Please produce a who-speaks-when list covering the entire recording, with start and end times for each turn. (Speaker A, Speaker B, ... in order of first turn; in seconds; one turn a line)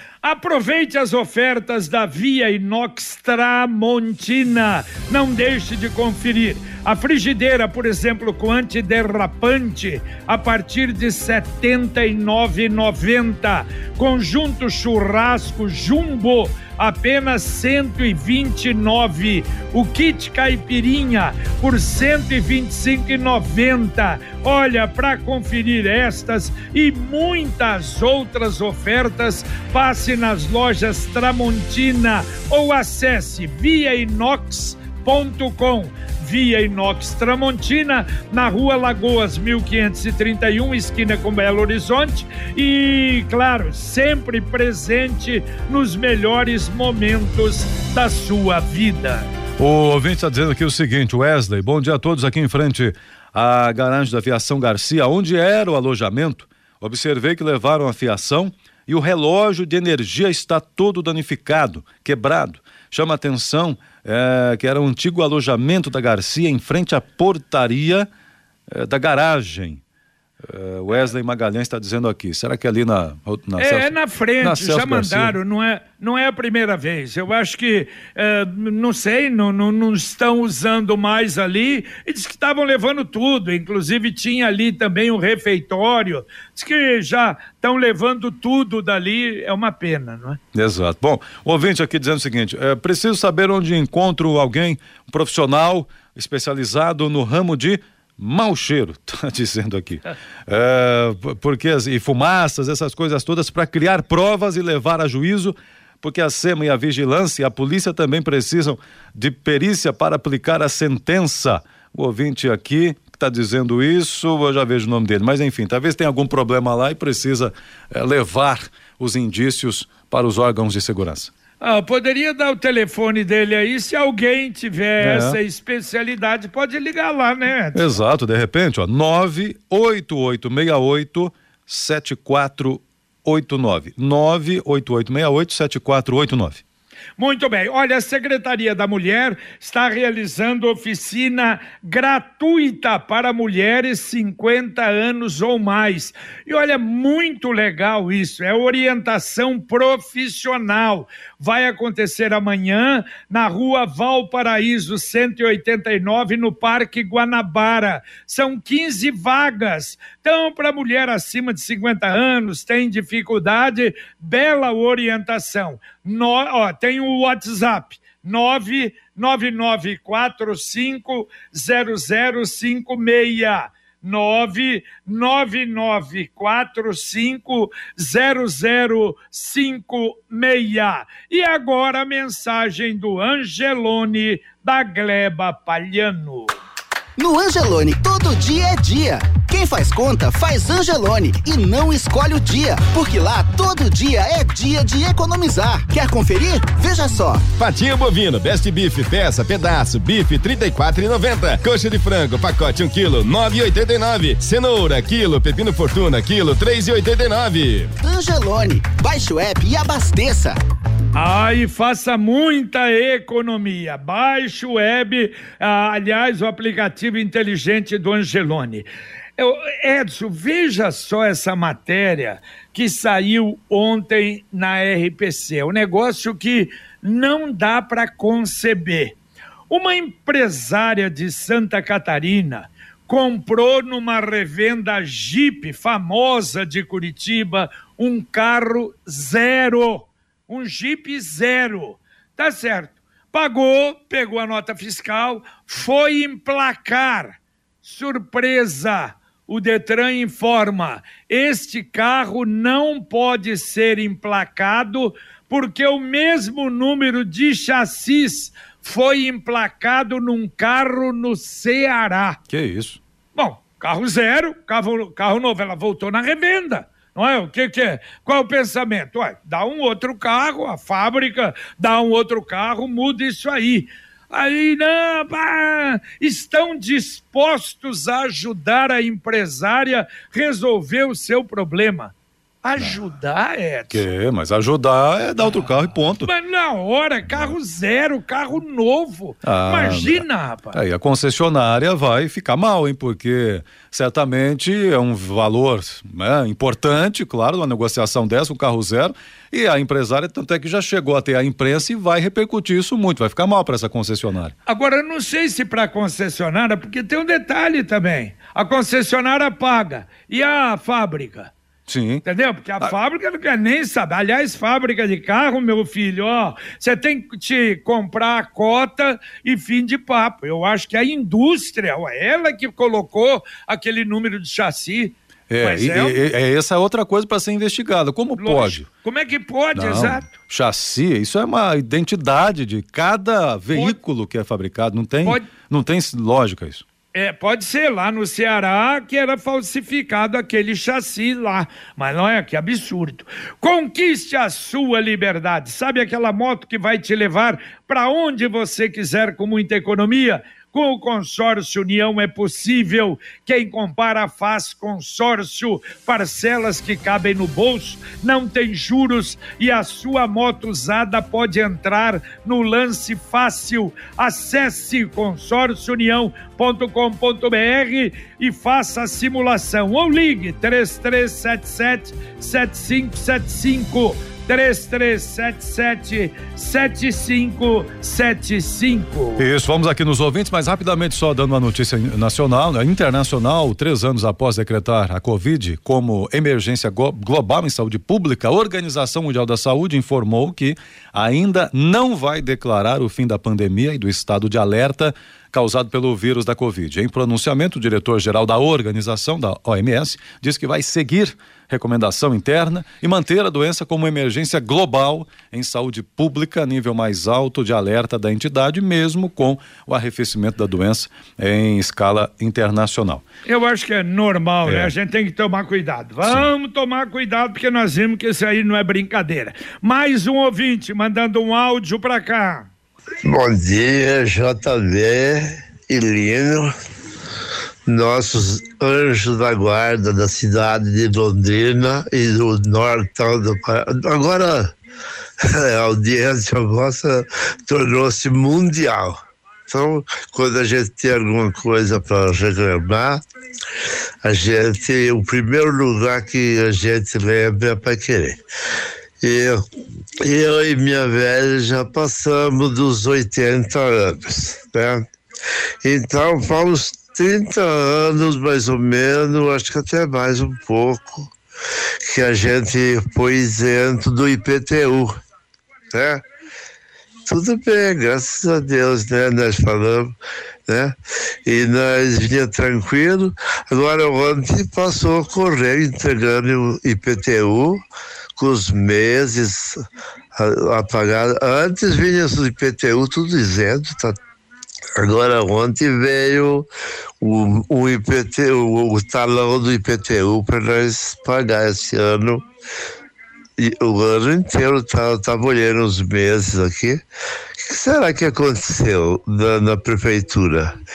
Speaker A: 0.2-49.3
Speaker B: 49.6-68.1
Speaker B: 68.7-69.8
Speaker B: 70.4-75.4
Speaker A: 73.6-90.4
Speaker B: 90.5-121.3
Speaker A: 121.6-128.0
Speaker B: 125.0-125.4
Speaker B: 127.7-136.6
Speaker A: 137.2-186.5
Speaker C: 187.2-197.4
Speaker D: 197.6-207.9
Speaker C: 208.0-210.6
Speaker A: 211.1-218.9
Speaker A: 219.4-229.2
Speaker A: 229.7-262.4
Speaker B: 262.5-263.0
Speaker A: 263.4-284.0
Speaker B: 283.9-286.3
Speaker A: 286.2-290.8
Speaker B: 287.3-287.5
Speaker B: 289.4-304.5
Speaker A: 304.6-311.5
Speaker B: 311.9-312.2
Speaker A: 312.2-326.2
Speaker B: 325.5-328.9
Speaker A: 328.4-330.3
Speaker B: 329.7-336.8
Speaker A: 337.1-379.4
Speaker B: 379.4-413.2
Speaker A: 413.4-422.7
Speaker B: 414.6-414.9
Speaker E: 423.2-426.7
Speaker E: 427.9-434.7
Speaker E: 435.4-443.2
Speaker E: 444.2-448.4
Speaker E: 449.2-449.6
Speaker E: 450.2-455.0
Speaker E: 455.8-461.3
Speaker E: 462.1-465.1
Speaker E: 465.9-466.2
Speaker E: 467.2-470.1
Speaker E: 470.7-477.8
Speaker E: 478.4-479.8
Speaker E: 480.3-484.1
Speaker E: 485.0-486.7
Speaker E: 487.2-492.4
Speaker E: 493.6-497.0
Speaker E: 497.6-500.7